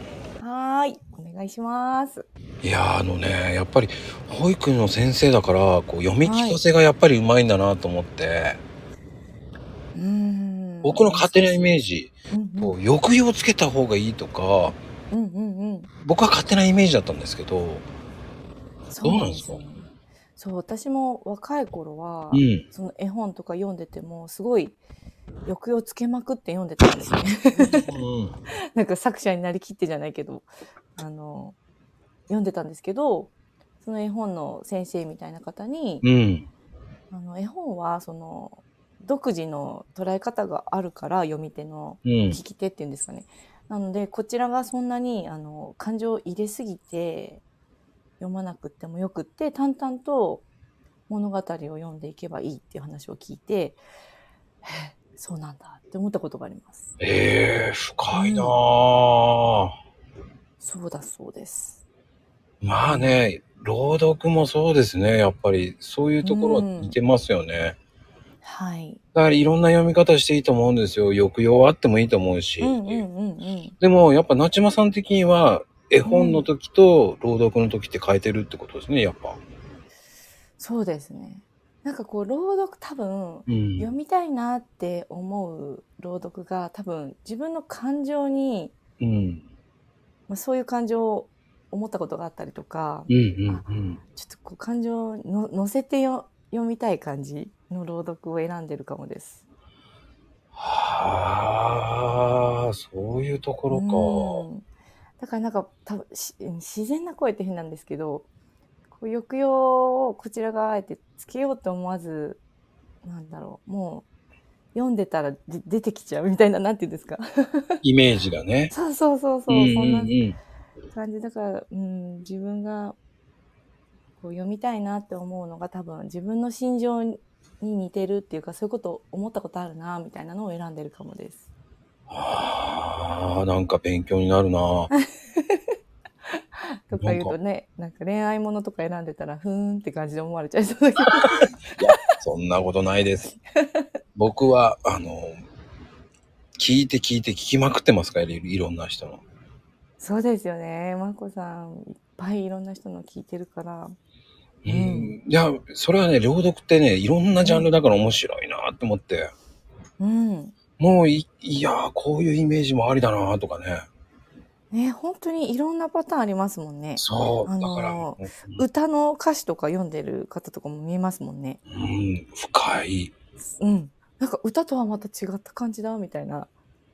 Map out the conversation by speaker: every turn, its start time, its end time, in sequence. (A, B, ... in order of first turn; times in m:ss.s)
0:00.4-0:02.3 A
0:02.6-0:08.6 B
0:06.2-0:06.6 A
0:09.9-0:11.6 A
0:10.8-0:14.7 B
0:12.3-0:12.8 A
0:15.1-0:15.9 A
0:16.0-0:17.8 B
0:18.9-0:24.8 A
0:19.0-0:19.6 B
0:22.3-0:22.6 B
0:25.4-0:28.0 A
0:27.6-0:28.4 B
0:28.7-0:31.6 A
0:32.3-0:36.0 A
0:36.0-0:36.5 B
0:37.1-0:47.4 A
0:42.0-0:42.4 B
0:48.2-0:50.4 A
0:51.1-0:53.8 A
0:54.6-0:56.9 A
0:57.0-0:59.7 B
0:58.1-0:58.6 A
1:00.6-1:01.8 A
1:02.6-1:07.8 B
1:02.9-1:03.2 A
1:06.2-1:07.0 A
1:08.4-1:09.0 A
1:09.1-1:13.0 B
1:12.6-1:13.7 A
1:13.8-1:19.4 B
1:16.0-1:16.5 A
1:20.6-1:28.7 A
1:23.5-1:23.9 B
1:29.0-1:29.4 B
1:30.3-1:39.4 A
1:33.1-1:34.0 B
1:40.5-1:44.4 B
1:43.7-1:44.6 A
1:45.2-1:48.3 A
1:48.9-1:52.4 A
1:53.0-1:54.0 A
1:54.7-1:57.8 A
1:57.8-1:58.7 B
1:58.7-2:00.2 A
1:59.5-2:00.4 B
2:00.9-2:03.0 A
2:04.2-2:11.4 A
2:12.1-2:14.9 B
2:14.9-2:15.7 A
2:16.9-2:21.5 A
2:17.0-2:17.3 B
2:21.8-2:23.3 B
2:23.6-2:23.8 A
2:24.2-2:25.4 B
2:26.6-2:29.2 B
2:30.0-2:34.0 A
2:34.6-2:39.3 B
2:34.6-2:35.1 A
2:37.4-2:37.7 A
2:40.0-2:40.5 A
2:40.8-2:43.8 B
2:44.7-2:51.6 A
2:47.0-2:48.6 B
2:51.7-2:53.1 B
2:53.6-2:56.5 A